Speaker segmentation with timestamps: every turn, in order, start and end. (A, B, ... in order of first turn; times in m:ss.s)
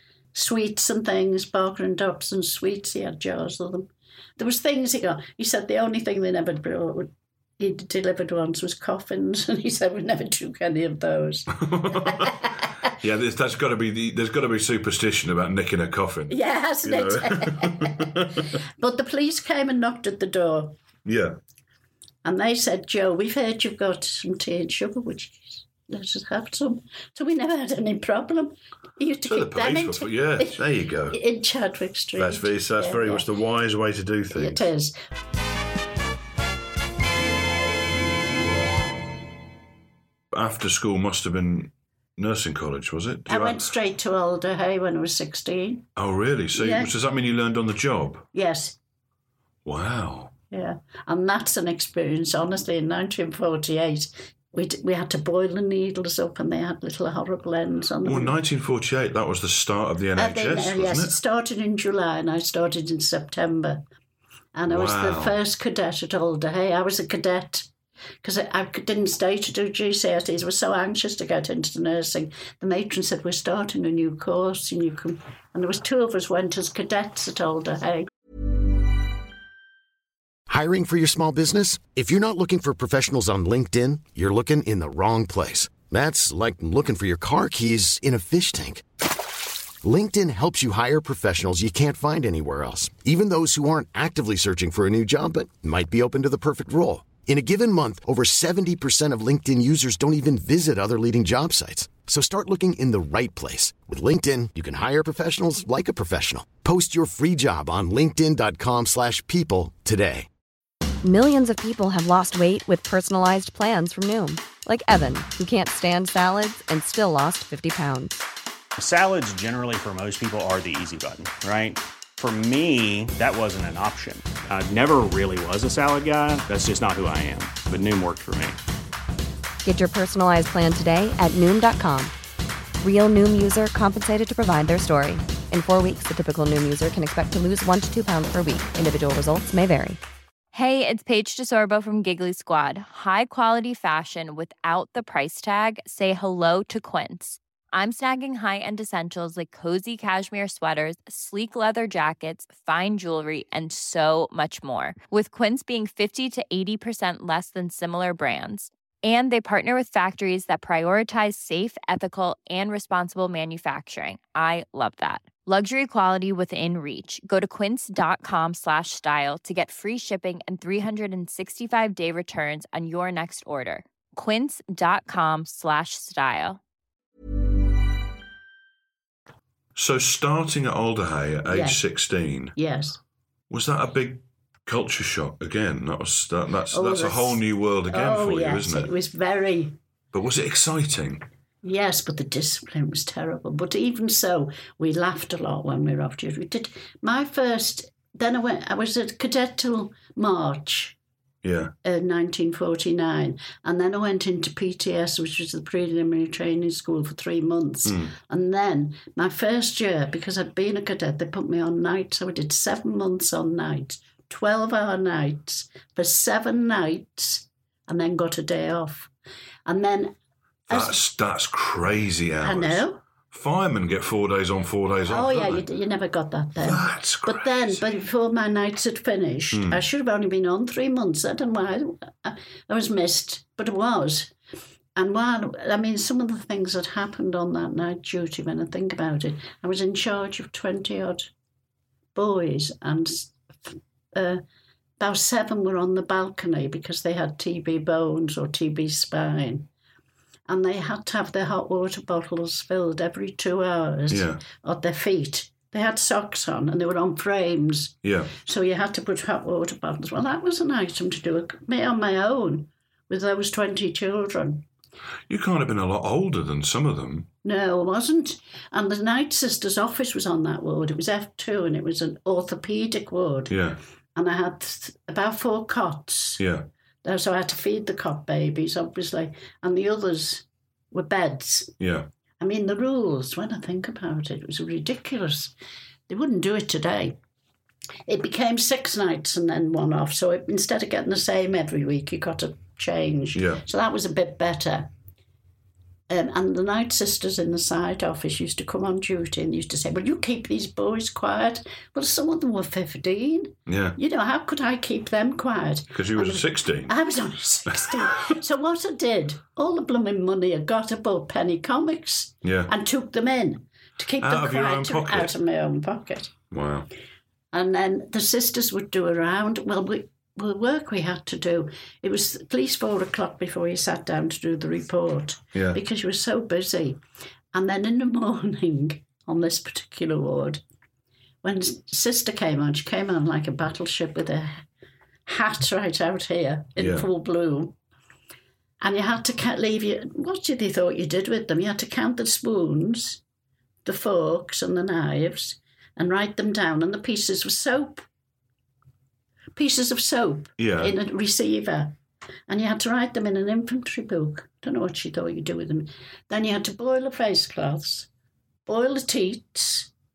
0:00.3-0:12.6 A
0:11.6-0:18.5 B
0:16.3-0:18.2 A
0:18.8-0:20.8 A
0:21.0-0:21.4 B
0:22.2-0:33.3 A
0:29.2-0:31.2 B
0:32.2-0:34.6 B
0:34.3-0:34.9 A
0:40.3-0:43.7 B
0:43.3-0:45.9 A
0:46.0-0:48.3 B
0:46.5-0:46.9 A
0:48.3-0:48.8 A
0:49.6-0:50.3 B
0:50.5-0:58.4 A
0:58.0-1:01.1 B
1:00.2-1:03.8 A
1:04.5-1:07.7 A
1:04.7-1:05.3 B
1:08.2-1:18.1 A
1:20.5-1:28.8 C
1:29.8-1:50.3 C
1:51.0-1:58.2 D
1:58.8-2:08.6 E
2:09.6-2:12.1 D
2:12.8-2:20.0 D
2:20.5-2:56.6 F
2:59.7-3:02.5 B
3:01.4-3:01.8 A
3:02.6-3:03.0 A
3:03.5-3:08.9 B
3:06.7-3:09.8 A
3:10.1-3:11.2 B
3:11.6-3:21.0 A
3:21.4-3:21.7 B
3:21.8-3:39.1 A
3:27.8-3:28.1 B
3:39.6-3:40.1 A
3:40.7-3:41.0 A
3:40.7-3:45.6 B
3:42.4-3:43.0 A
3:45.1-3:54.3 A
3:46.6-3:47.8 B
3:49.5-3:49.8 B
3:55.0-4:01.3 A
4:02.1-4:04.4 A
4:05.0-4:09.7 A
4:10.5-4:24.6 A
4:14.1-4:14.4 B
4:18.0-4:18.3 B
4:25.3-4:27.3 B
4:27.4-4:33.6 A
4:33.5-4:33.8 B
4:34.2-4:36.4 A
4:36.4-4:36.6 B
4:37.0-4:41.8 A
4:41.8-4:42.1 B
4:42.4-4:45.5 A
4:46.1-4:47.2 A
4:48.1-4:54.9 A
4:53.3-4:53.6 B
4:56.1-5:16.4 A
5:03.7-5:04.0 B
5:05.9-5:06.9 B
5:12.4-5:12.7 B
5:14.2-5:15.3 B
5:16.5-5:16.9 B
5:17.5-5:27.0 A
5:25.5-5:25.8 B
5:27.5-5:30.6 A
5:31.4-5:34.6 A
5:35.2-5:37.8 A
5:36.8-5:37.1 B
5:38.8-5:43.2 A
5:43.8-5:48.0 A
5:49.5-5:52.0 A
5:50.6-5:50.9 B
5:52.5-5:58.1 A
5:58.6-5:59.9 A